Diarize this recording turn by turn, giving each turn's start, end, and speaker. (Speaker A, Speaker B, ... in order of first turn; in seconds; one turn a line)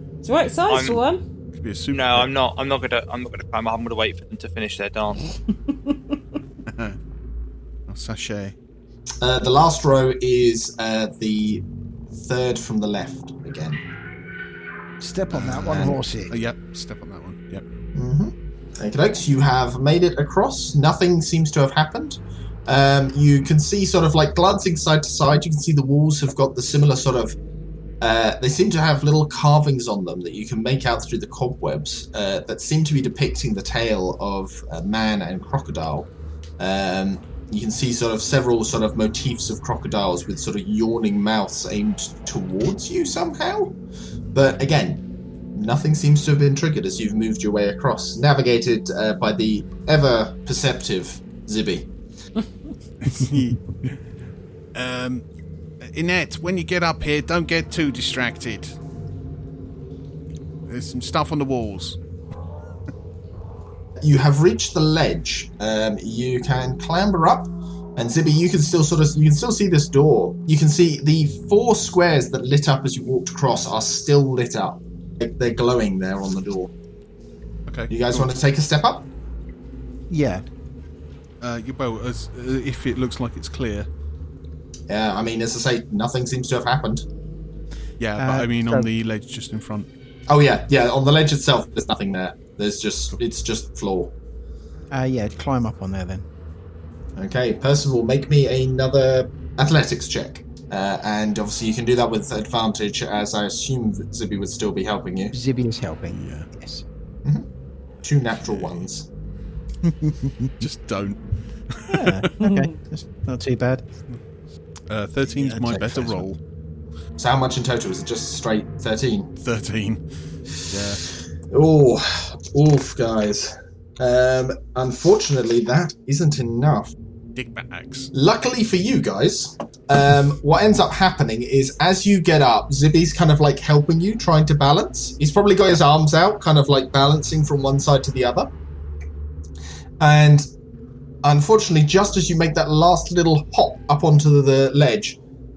Speaker A: 0.2-1.2
Speaker B: 0.7-1.0
Speaker C: 1.5-2.3
Speaker B: 1.9-5.2
Speaker A: 5.7-6.2
Speaker C: 6.7-7.0
Speaker C: 7.9-8.5
Speaker D: 9.2-13.8
Speaker E: 15.0-16.3
Speaker C: 15.3-17.6
Speaker D: 17.9-27.4
Speaker D: 28.0-43.8
Speaker D: 44.3-45.0
Speaker D: 45.5-51.9
Speaker C: 53.0-54.0
Speaker C: 54.7-55.2
Speaker C: 55.9-58.7
Speaker C: 60.7-62.0
Speaker D: 64.0-76.7
Speaker C: 77.7-78.3
Speaker D: 77.9-79.1
Speaker E: 80.1-80.4
Speaker C: 81.4-83.9
Speaker D: 84.9-87.0
Speaker C: 88.0-89.9
Speaker E: 88.2-88.9
Speaker D: 90.3-94.1
Speaker E: 94.9-96.2
Speaker D: 97.2-105.3
Speaker E: 105.3-106.8
Speaker C: 106.1-106.5
Speaker D: 108.0-109.1
Speaker C: 108.4-108.8
Speaker E: 109.8-110.7
Speaker C: 110.6-112.3
Speaker E: 111.9-113.8
Speaker A: 112.4-112.8
Speaker C: 114.9-116.4
Speaker D: 115.6-116.2
Speaker D: 117.2-119.3
Speaker C: 119.4-120.0
Speaker C: 120.7-121.0
Speaker D: 121.5-126.9
Speaker C: 127.3-128.1
Speaker D: 128.1-138.5
Speaker D: 140.0-140.5
Speaker D: 141.2-145.2